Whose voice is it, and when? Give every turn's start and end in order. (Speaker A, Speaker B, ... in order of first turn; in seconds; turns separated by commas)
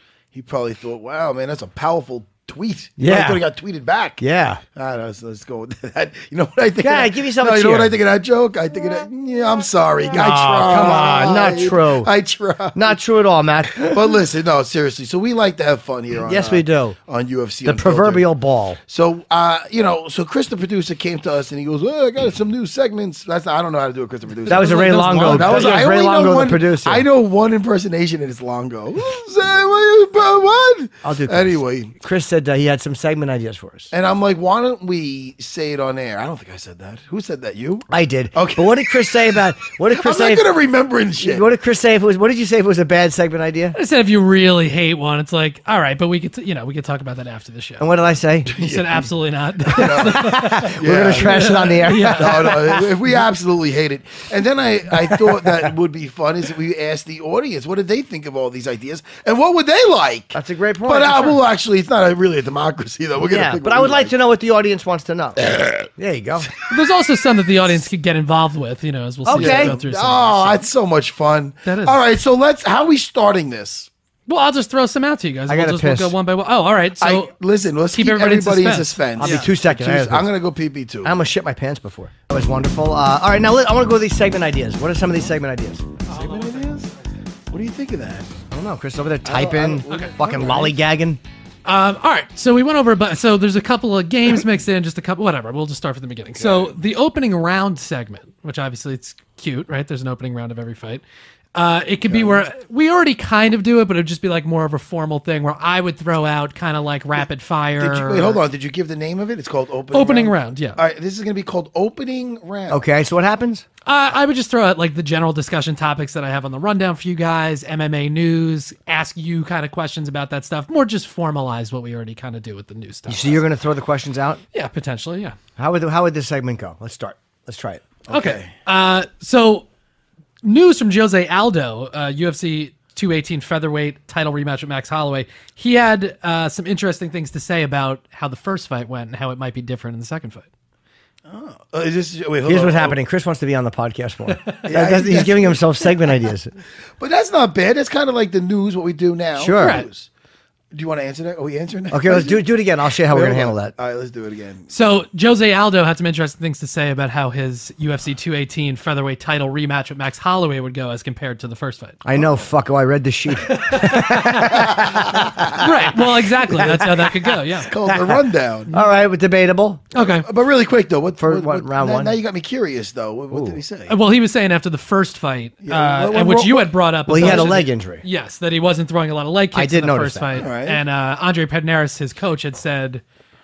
Speaker A: 0.3-4.2, Speaker B: 3.0-3.4, Speaker B: 4.2-4.6, Speaker A: 4.7-13.0, Speaker B: 6.8-8.0, Speaker B: 10.1-12.1, Speaker B: 12.7-13.9, Speaker A: 13.7-18.3, Speaker B: 16.2-17.0, Speaker B: 17.6-18.8, Speaker A: 18.8-32.0, Speaker B: 24.5-27.0, Speaker C: 24.5-25.8, Speaker B: 31.0-33.9, Speaker A: 33.9-41.5, Speaker B: 37.9-40.5, Speaker B: 41.2-43.8, Speaker C: 43.7-47.9, Speaker B: 47.8-48.5, Speaker A: 48.5-49.1, Speaker C: 48.5-52.8, Speaker A: 49.6-64.1, Speaker B: 49.7-52.8, Speaker B: 60.3-61.4, Speaker B: 63.3-66.5, Speaker A: 65.4-65.9, Speaker C: 66.7-70.6, Speaker B: 69.2-69.7, Speaker A: 69.3-73.9, Speaker C: 71.6-72.0, Speaker C: 74.3-77.3, Speaker B: 75.5-76.1, Speaker A: 77.0-81.1, Speaker C: 77.9-79.5, Speaker B: 79.2-80.3, Speaker B: 81.0-85.9, Speaker A: 86.1-86.9, Speaker C: 86.1-86.8, Speaker A: 87.5-88.3, Speaker B: 88.5-91.2, Speaker A: 89.2-90.8, Speaker C: 91.6-101.0, Speaker A: 96.3-96.8, Speaker C: 101.5-108.4, Speaker A: 102.0-102.4, Speaker A: 107.8-112.8, Speaker C: 109.9-110.8, Speaker B: 112.7-113.7, Speaker C: 113.8-123.4, Speaker B: 123.1-124.4, Speaker C: 124.5-125.3, Speaker B: 125.6-127.8, Speaker A: 128.1-128.5, Speaker C: 128.1-129.6, Speaker C: 130.4-140.5, Speaker A: 141.2-143.0, Speaker B: 142.4-146.5, Speaker C: 144.3-144.6, Speaker A: 144.6-146.2, Speaker A: 147.0-150.1, Speaker B: 149.3-149.8, Speaker C: 149.6-149.9, Speaker A: 150.7-154.7, Speaker B: 151.9-153.7, Speaker C: 154.7-162.0, Speaker B: 162.0-165.7, Speaker C: 163.4-164.7, Speaker A: 164.5-165.5, Speaker C: 165.5-167.8, Speaker B: 166.4-167.1, Speaker A: 166.6-168.7, Speaker B: 167.8-168.2, Speaker B: 168.7-169.8, Speaker C: 169.9-170.2, Speaker A: 170.2-173.9, Speaker B: 171.2-172.2, Speaker B: 173.3-173.6, Speaker C: 173.9-183.0, Speaker A: 175.6-177.6, Speaker B: 177.1-178.0, Speaker B: 179.5-180.4, Speaker A: 180.3-180.8